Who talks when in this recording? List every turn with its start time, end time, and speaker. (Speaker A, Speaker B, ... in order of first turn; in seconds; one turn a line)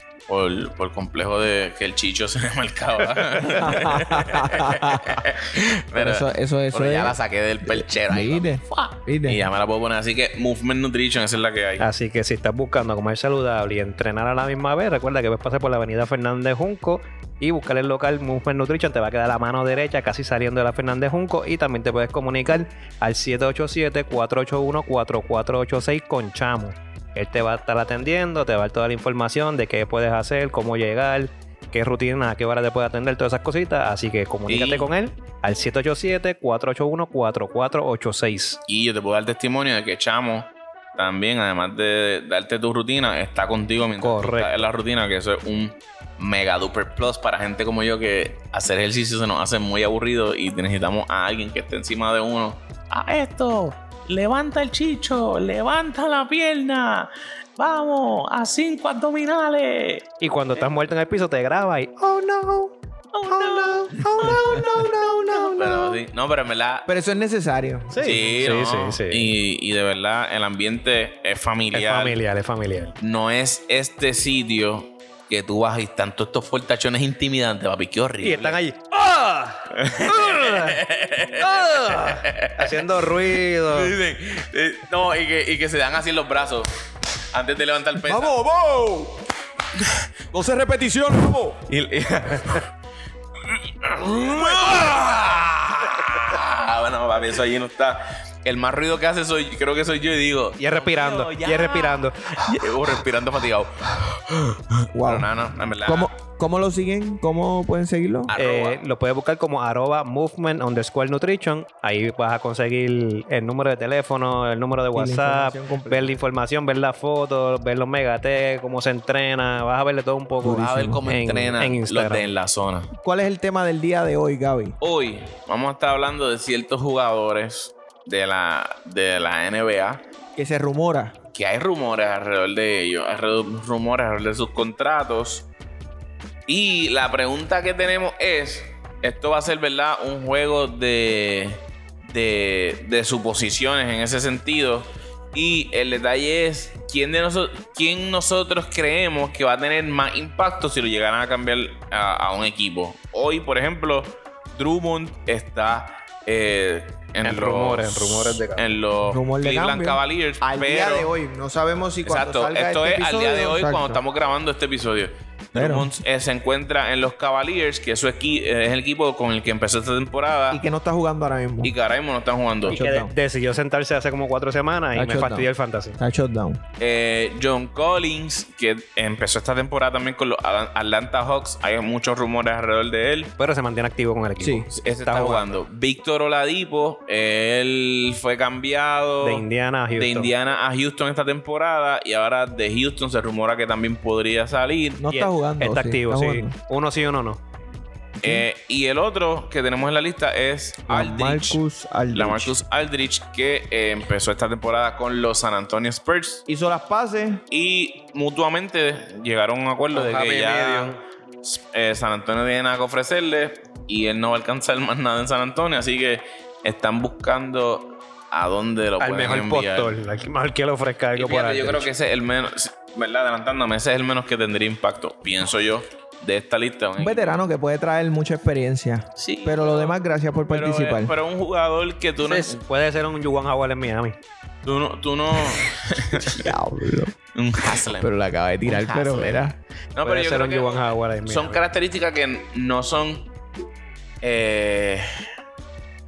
Speaker A: 0.3-11.8
Speaker B: 3.6-5.2
Speaker B: 5.9-9.5
Speaker C: 11.8-38.6
Speaker A: 34.5-34.9
Speaker A: 38.7-60.1
Speaker C: 44.0-44.7
Speaker C: 60.2-62.6
Speaker B: 62.3-62.7
Speaker A: 63.1-66.9
Speaker B: 63.3-66.0
Speaker B: 66.9-68.3
Speaker C: 67.9-69.3
Speaker A: 68.0-72.2
Speaker C: 71.7-73.0
Speaker A: 73.0-78.6
Speaker C: 78.2-80.8
Speaker A: 79.8-83.1
Speaker C: 81.4-84.0
Speaker A: 83.7-86.7
Speaker A: 87.3-88.3
Speaker B: 88.0-89.3
Speaker B: 90.3-91.7
Speaker A: 91.7-92.7
Speaker A: 93.5-106.1
Speaker B: 94.3-94.8
Speaker C: 100.6-102.5
Speaker B: 104.9-105.3
Speaker B: 105.8-108.3
Speaker A: 108.3-108.8
Speaker C: 108.3-122.3
Speaker B: 114.9-116.2
Speaker B: 120.4-121.0
Speaker A: 120.5-122.9
Speaker B: 123.0-124.8
Speaker A: 124.8-130.0
Speaker B: 130.4-131.2
Speaker A: 131.3-135.5
Speaker A: 136.5-161.1
Speaker C: 157.2-158.7
Speaker B: 159.1-164.0
Speaker A: 162.0-170.6
Speaker B: 165.6-165.9
Speaker B: 170.5-171.7
Speaker A: 171.6-172.8
Speaker C: 172.7-176.0
Speaker B: 172.7-173.1
Speaker B: 174.9-176.6
Speaker A: 176.8-183.3
Speaker C: 183.4-185.6
Speaker B: 184.4-184.7
Speaker A: 184.7-195.0
Speaker C: 189.2-190.3
Speaker B: 195.0-196.6
Speaker C: 195.1-197.4
Speaker B: 198.2-198.5
Speaker A: 198.2-201.6
Speaker B: 200.9-202.6
Speaker A: 202.1-206.4
Speaker B: 206.5-207.4
Speaker A: 207.5-220.0
Speaker C: 209.9-211.0
Speaker C: 219.0-221.9
Speaker A: 221.2-227.5
Speaker B: 227.0-231.2
Speaker A: 229.2-232.6
Speaker C: 232.2-234.2
Speaker A: 234.7-236.5
Speaker B: 236.2-239.6
Speaker A: 237.3-238.1
Speaker A: 238.7-243.3
Speaker C: 240.0-241.6
Speaker A: 244.2-245.1